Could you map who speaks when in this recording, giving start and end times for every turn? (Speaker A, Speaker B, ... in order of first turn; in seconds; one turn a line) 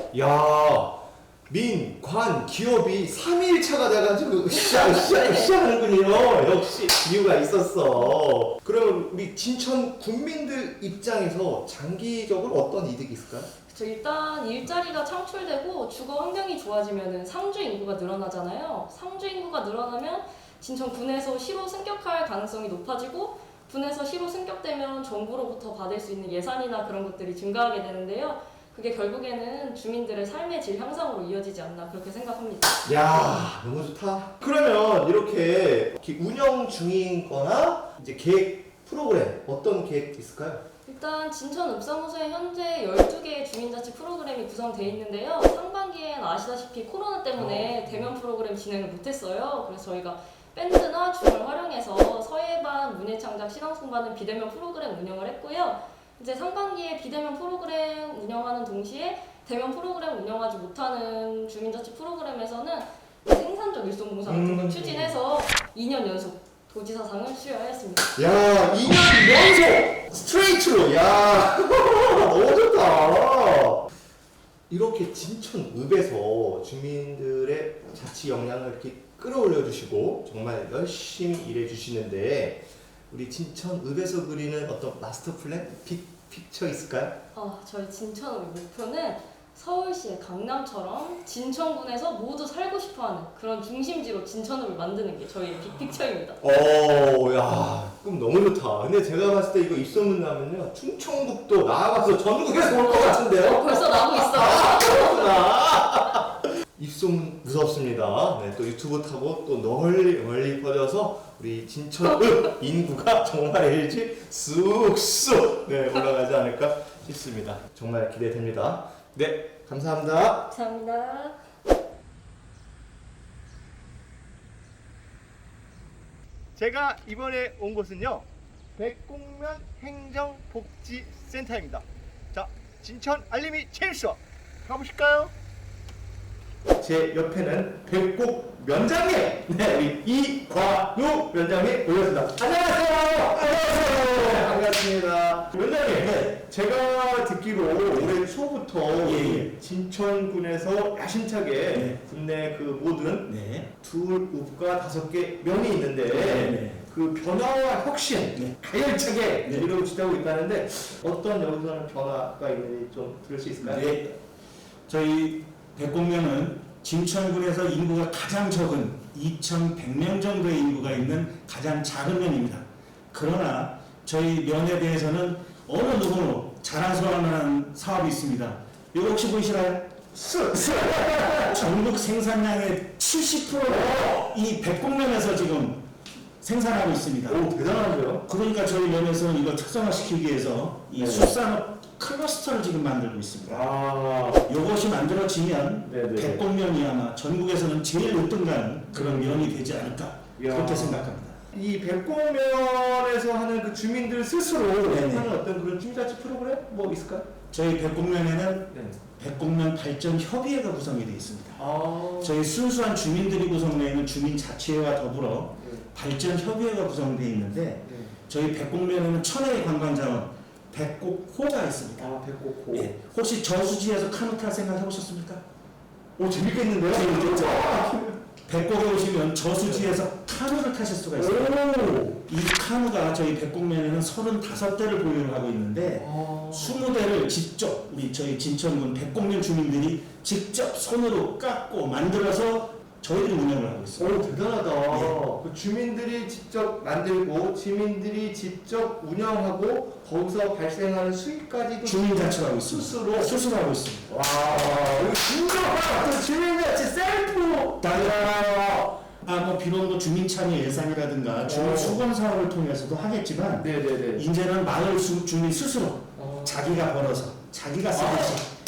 Speaker A: 0.1-13.5
Speaker B: 4.5-5.5
Speaker B: 13.7-32.8
Speaker A: 32.8-40.6
Speaker B: 40.9-68.1
Speaker A: 47.4-48.1
Speaker A: 64.2-65.2
Speaker A: 68.1-73.9
Speaker A: 74.7-87.2
Speaker B: 87.3-96.4
Speaker A: 96.4-120.5
Speaker B: 102.8-105.4
Speaker B: 120.5-121.4
Speaker A: 126.5-135.3
Speaker A: 136.8-164.1
Speaker C: 148.9-149.5
Speaker C: 151.7-152.0
Speaker C: 153.2-153.7
Speaker C: 156.1-156.8
Speaker C: 163.6-164.1
Speaker C: 164.9-185.8
Speaker A: 180.2-181.6
Speaker A: 183.7-184.1
Speaker C: 186.4-193.7
Speaker A: 187.2-188.2
Speaker A: 190.9-191.3
Speaker A: 193.5-194.5
Speaker C: 194.4-201.4
Speaker A: 195.8-196.4
Speaker A: 198.9-199.6
Speaker A: 200.4-207.3
Speaker C: 204.8-205.3
Speaker C: 207.5-211.7
Speaker A: 208.7-209.0
Speaker A: 211.6-212.4
Speaker C: 212.2-222.1
Speaker A: 215.6-215.8
Speaker A: 217.8-218.2
Speaker A: 222.0-222.9
Speaker C: 222.7-225.4
Speaker A: 226.2-228.2
Speaker C: 226.9-227.7
Speaker C: 228.5-231.6
Speaker A: 229.6-230.0
Speaker A: 231.1-232.2
Speaker C: 232.2-244.3
Speaker A: 235.9-236.8
Speaker A: 244.0-253.3
Speaker C: 244.9-245.2
Speaker C: 251.8-254.1
Speaker A: 254.1-258.9
Speaker C: 257.8-268.5
Speaker A: 261.4-262.0
Speaker A: 263.6-264.2
Speaker A: 266.1-266.7
Speaker A: 267.9-268.4